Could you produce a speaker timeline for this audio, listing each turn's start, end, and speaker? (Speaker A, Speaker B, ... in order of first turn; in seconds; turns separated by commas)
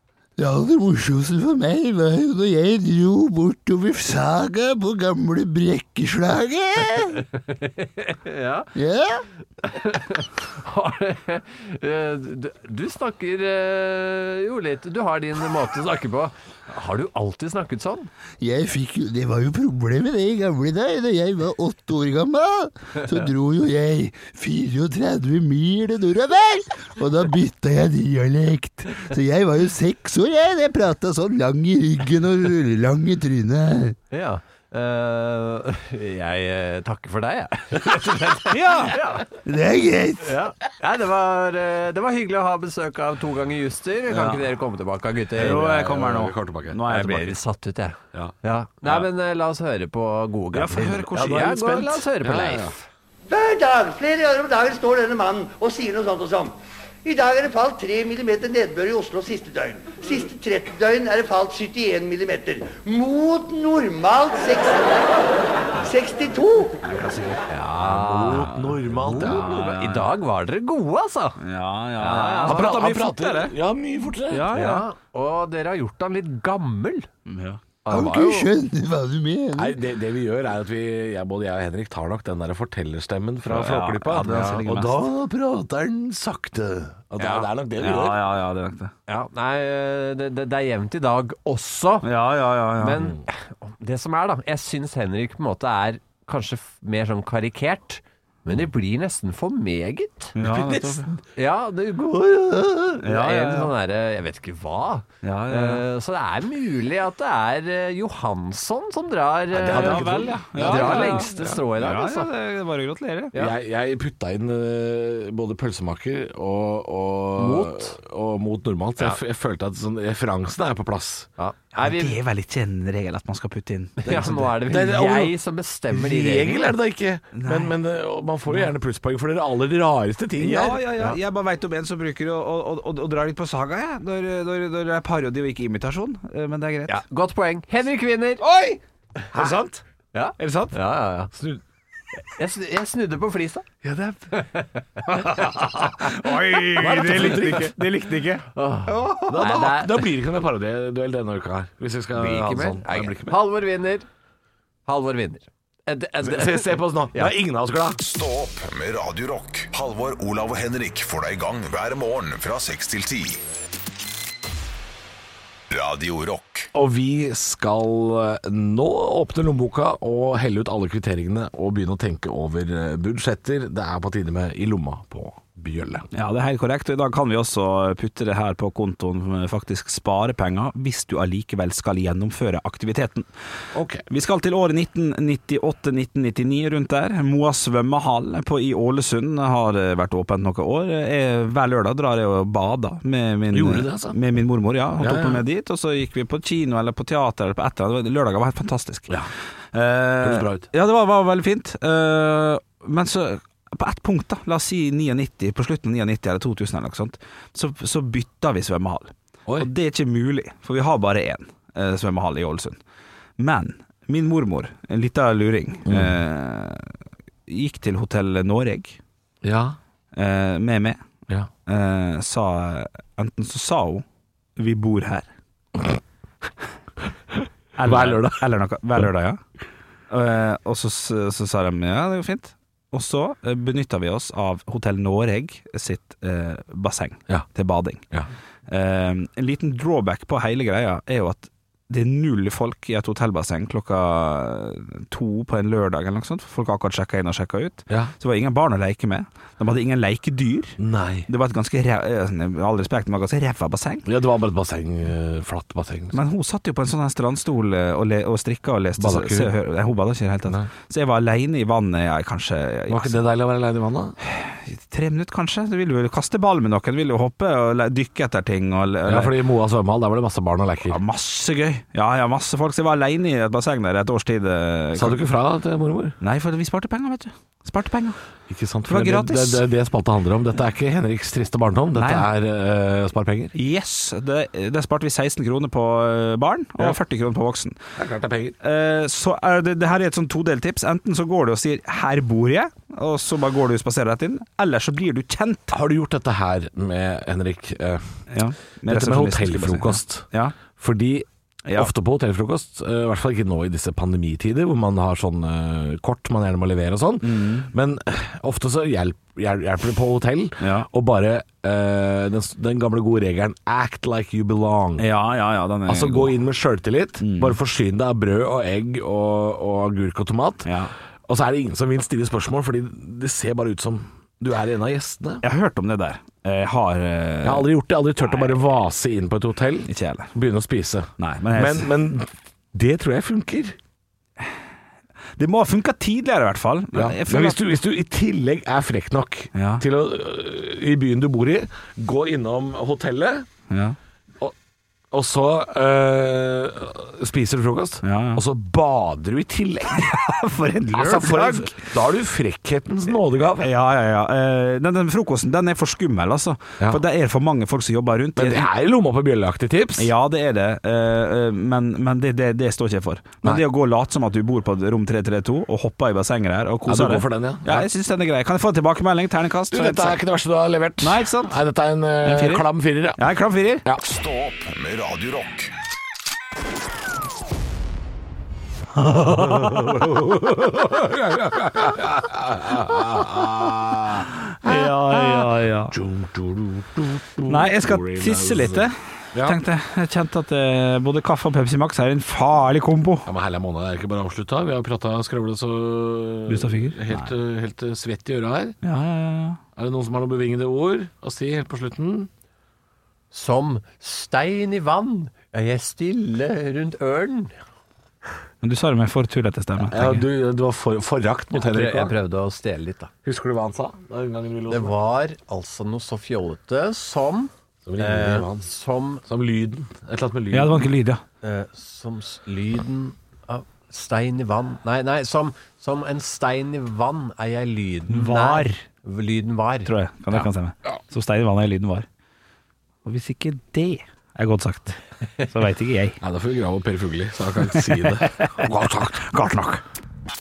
Speaker A: 0.4-7.2, Speaker B: 7.3-8.7, Speaker A: 8.7-9.2, Speaker B: 9.6-18.1, Speaker A: 18.4-34.0, Speaker B: 34.1-39.3, Speaker C: 38.5-39.0, Speaker A: 39.4-40.3, Speaker B: 40.2-45.6, Speaker C: 44.1-44.5, Speaker C: 45.4-47.4, Speaker D: 45.4-46.8, Speaker B: 46.9-52.9, Speaker C: 50.5-51.6, Speaker D: 51.1-52.7, Speaker E: 53.3-66.8, Speaker C: 66.8-67.5, Speaker B: 67.5-71.4, Speaker D: 67.8-69.5, Speaker C: 68.3-70.1, Speaker C: 71.4-73.5, Speaker B: 72.0-72.6, Speaker D: 72.4-74.5, Speaker C: 74.3-74.8, Speaker B: 74.5-77.1, Speaker C: 77.2-77.6, Speaker B: 77.8-78.5, Speaker A: 77.9-79.8, Speaker D: 79.6-84.5, Speaker C: 83.4-85.0, Speaker B: 84.2-84.6, Speaker A: 84.6-87.0, Speaker D: 87.0-88.3, Speaker B: 87.2-87.5, Speaker C: 87.8-88.9, Speaker B: 89.1-92.1, Speaker C: 92.0-93.0, Speaker B: 92.8-100.3, Speaker C: 100.3-101.0, Speaker D: 100.4-101.2, Speaker B: 101.3-112.3, Speaker C: 103.0-103.7, Speaker C: 105.2-105.8, Speaker D: 109.5-111.6, Speaker C: 109.5-113.3, Speaker D: 113.3-121.3, Speaker B: 117.4-118.0, Speaker B: 121.4-122.2, Speaker C: 121.8-124.0, Speaker B: 124.0-126.7, Speaker D: 124.0-125.3, Speaker D: 125.9-130.8, Speaker C: 127.3-127.8, Speaker C: 130.4-136.9, Speaker B: 136.9-138.4, Speaker C: 138.4-138.8, Speaker C: 139.3-139.8, Speaker B: 140.1-141.3, Speaker C: 140.4-140.8, Speaker D: 141.3-141.6, Speaker B: 142.2-143.7, Speaker C: 143.8-144.1, Speaker B: 144.3-145.3, Speaker C: 145.1-149.4, Speaker D: 146.7-147.7, Speaker B: 146.8-147.8, Speaker B: 148.5-150.1, Speaker D: 149.3-153.4, Speaker B: 152.2-154.1, Speaker B: 154.8-157.3, Speaker D: 156.2-158.0, Speaker F: 158.0-163.4, Speaker F: 165.7-166.7, Speaker D: 166.7-176.1, Speaker C: 176.1-183.3, Speaker D: 183.7-184.0, Speaker C: 184.1-199.2, Speaker D: 193.5-194.2, Speaker D: 195.0-195.4, Speaker C: 199.7-212.8, Speaker D: 200.2-200.7, Speaker C: 213.4-216.9, Speaker D: 215.8-216.2, Speaker C: 217.5-219.0, Speaker D: 219.4-219.8, Speaker C: 220.1-221.0, Speaker C: 221.7-224.0, Speaker C: 224.6-225.3, Speaker D: 227.3-228.4, Speaker C: 227.8-229.4, Speaker C: 230.1-238.0, Speaker C: 238.7-250.8, Speaker D: 250.8-251.3, Speaker C: 251.3-254.1, Speaker D: 254.1-256.2, Speaker C: 256.1-263.2, Speaker D: 259.0-259.5, Speaker D: 262.9-264.1, Speaker C: 264.2-269.4, Speaker D: 269.1-271.0, Speaker C: 270.9-275.2, Speaker D: 274.9-276.1, Speaker C: 276.2-278.2, Speaker D: 278.5-283.5, Speaker C: 278.8-279.6, Speaker C: 281.9-282.3, Speaker C: 283.5-287.8, Speaker D: 288.0-288.6, Speaker C: 288.6-295.8, Speaker D: 295.7-298.0, Speaker C: 298.3-300.6, Speaker D: 298.9-315.1, Speaker C: 301.6-301.9, Speaker C: 307.2-307.7, Speaker C: 310.6-310.9, Speaker C: 315.0-316.3, Speaker D: 315.9-320.7, Speaker C: 317.2-317.6, Speaker C: 320.6-320.9, Speaker D: 321.3-325.4, Speaker C: 325.4-327.7, Speaker D: 327.4-333.8, Speaker C: 328.2-328.6, Speaker C: 329.9-330.3, Speaker C: 331.2-331.9, Speaker C: 335.4-337.6, Speaker D: 336.9-343.5, Speaker C: 339.5-339.8, Speaker C: 343.7-344.0, Speaker D: 345.1-350.1, Speaker C: 348.0-348.4, Speaker C: 349.9-351.9, Speaker D: 350.9-353.7, Speaker C: 353.6-358.7, Speaker D: 358.4-360.1, Speaker C: 360.0-370.2, Speaker D: 366.9-367.9, Speaker D: 369.7-373.2, Speaker C: 371.0-371.6, Speaker C: 372.2-373.8, Speaker F: 374.0-375.7, Speaker C: 379.0-380.1, Speaker D: 379.1-389.6, Speaker C: 384.6-385.9, Speaker C: 387.4-393.3, Speaker D: 393.2-398.8, Speaker C: 396.5-397.3, Speaker C: 398.8-399.6, Speaker D: 399.8-402.3, Speaker B: 403.3-407.5, Speaker C: 408.6-410.2, Speaker D: 409.8-412.1, Speaker B: 411.5-413.1, Speaker D: 413.2-414.9, Speaker B: 414.7-419.2, Speaker D: 417.9-418.7, Speaker D: 419.2-420.9, Speaker C: 420.5-421.2, Speaker B: 421.4-429.9, Speaker C: 428.1-428.8, Speaker C: 429.8-432.1, Speaker C: 433.0-436.2, Speaker D: 436.2-439.3, Speaker C: 437.7-439.8